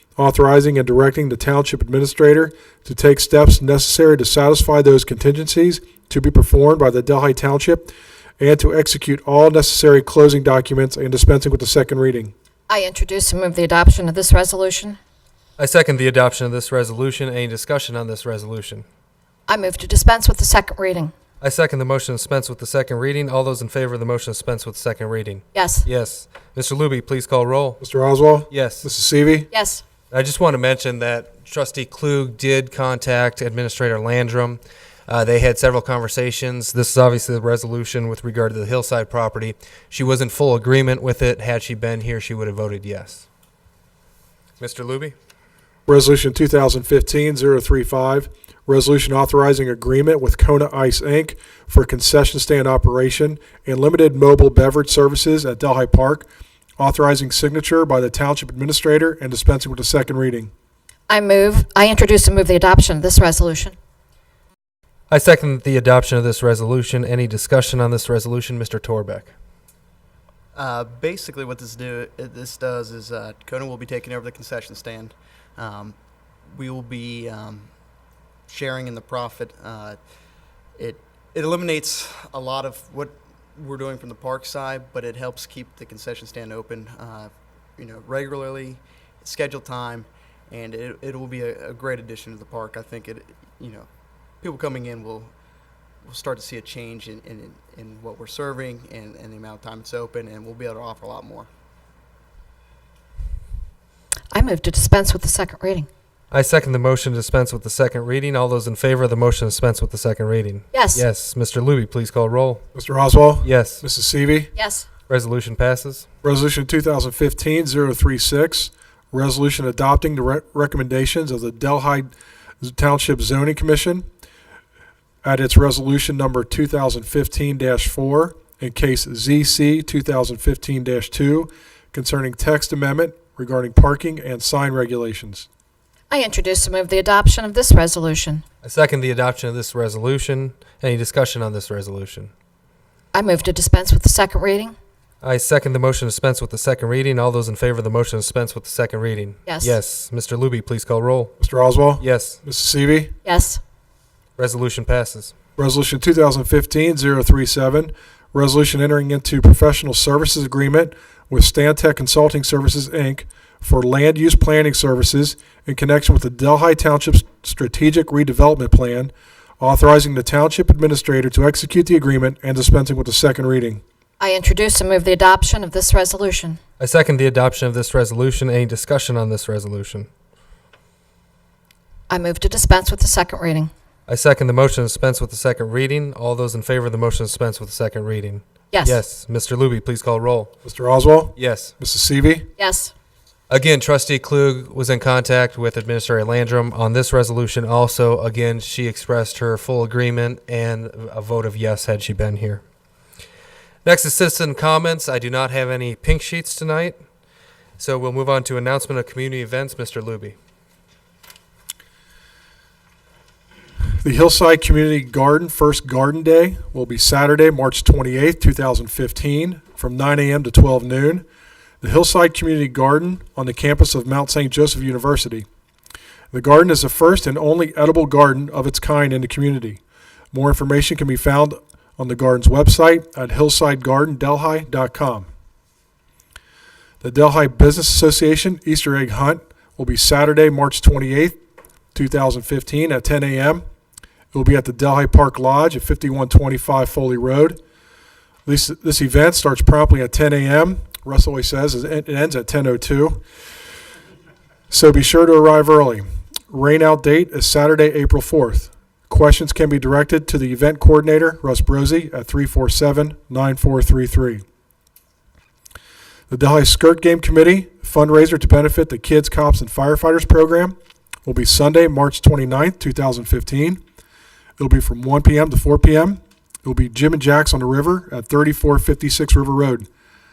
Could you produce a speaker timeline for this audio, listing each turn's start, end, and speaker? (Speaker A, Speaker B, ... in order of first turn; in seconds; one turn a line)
Speaker A: 0.1-12.3
Speaker B: 12.7-15.0
Speaker C: 15.6-18.9
Speaker B: 19.5-21.1
Speaker C: 21.4-27.8
Speaker B: 25.5-25.9
Speaker A: 27.8-29.5
Speaker C: 28.5-28.9
Speaker B: 29.5-29.8
Speaker C: 30.1-43.2
Speaker C: 44.6-45.1
Speaker A: 45.9-56.3
Speaker A: 56.8-60.5
Speaker B: 61.1-63.7
Speaker C: 65.1-69.3
Speaker D: 70.5-76.0
Speaker D: 76.5-77.7
Speaker D: 78.5-80.0
Speaker D: 80.8-93.9
Speaker D: 94.4-95.3
Speaker D: 96.0-101.5
Speaker B: 104.3-105.9
Speaker C: 106.3-112.6
Speaker B: 110.7-111.0
Speaker A: 112.7-114.5
Speaker C: 113.4-113.8
Speaker B: 114.5-114.8
Speaker C: 115.1-116.0
Speaker A: 116.2-124.1
Speaker A: 125.2-135.5
Speaker B: 136.1-138.4
Speaker C: 138.6-142.3
Speaker B: 143.1-144.7
Speaker C: 145.2-151.3
Speaker B: 149.4-149.7
Speaker A: 151.4-153.1
Speaker C: 152.0-152.4
Speaker B: 153.2-153.6
Speaker C: 154.4-155.3
Speaker A: 155.6-173.8
Speaker B: 174.2-176.6
Speaker C: 176.8-180.1
Speaker B: 182.1-183.7
Speaker C: 184.1-190.5
Speaker B: 188.7-189.0
Speaker A: 190.6-192.5
Speaker C: 191.3-191.7
Speaker B: 192.6-192.9
Speaker C: 193.5-202.6
Speaker C: 203.8-207.0
Speaker C: 207.8-210.3
Speaker A: 214.0-221.2
Speaker A: 221.8-225.4
Speaker A: 226.3-229.8
Speaker A: 230.3-235.3
Speaker A: 237.0-241.4
Speaker A: 241.9-243.6
Speaker A: 244.3-247.6
Speaker A: 248.4-253.2
Speaker A: 254.7-264.4
Speaker A: 266.3-273.8
Speaker A: 274.6-279.9